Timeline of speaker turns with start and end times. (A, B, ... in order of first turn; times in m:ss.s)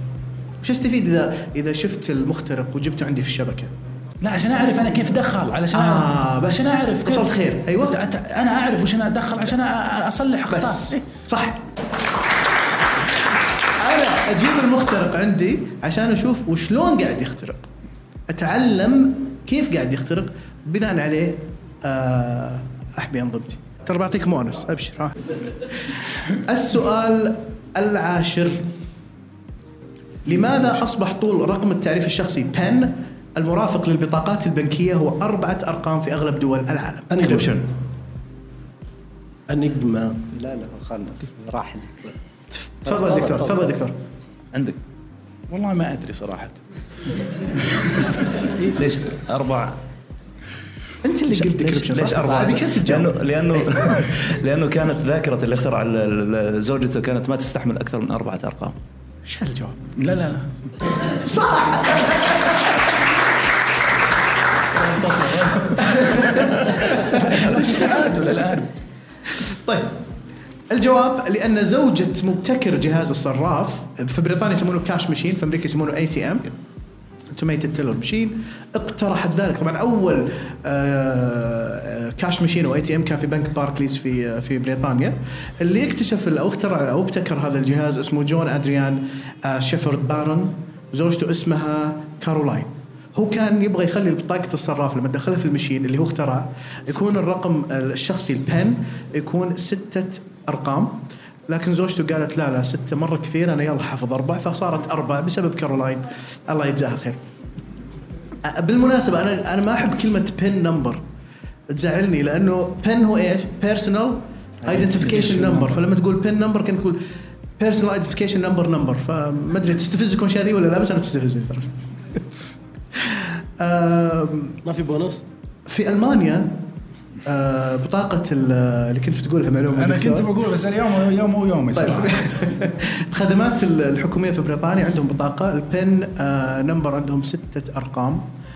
0:00.6-0:03.7 A
0:04.2-0:11.0 B
0:05.7-0:08.0 A
0:10.5-0:11.6 A
0:13.0-0:17.7 A
0:18.3-0:28.7 A
0:30.2-0:37.6 A
0:37.1-0:37.6 C
0:39.5-0:40.3 C
0:40.3-0:42.2 D
0:42.5-0:44.0 A
0:42.8-0:43.7 D
0:44.5-0:44.8 E
0:45.5-0:46.6 B
0:48.8-0:49.8 E
0:51.0-0:54.0 A
0:51.4-0:58.8 E
0:59.3-0:59.8 A
1:00.0-1:00.7 B
1:01.0-1:02.9 A
1:05.1-1:08.7 B
1:05.6-1:08.3 A
1:09.3-1:10.0 A
1:10.7-1:16.5 A
1:17.3-1:47.2 A
1:48.4-1:51.0 A
1:51.7-1:57.0 A
1:54.8-1:55.5 B
1:57.6-2:02.3 A
2:02.9-2:04.6 A
2:04.6-2:05.2 C
2:05.7-2:06.6 A
2:07.2-2:10.3 A
2:09.7-2:12.5 B
2:11.8-2:18.3 A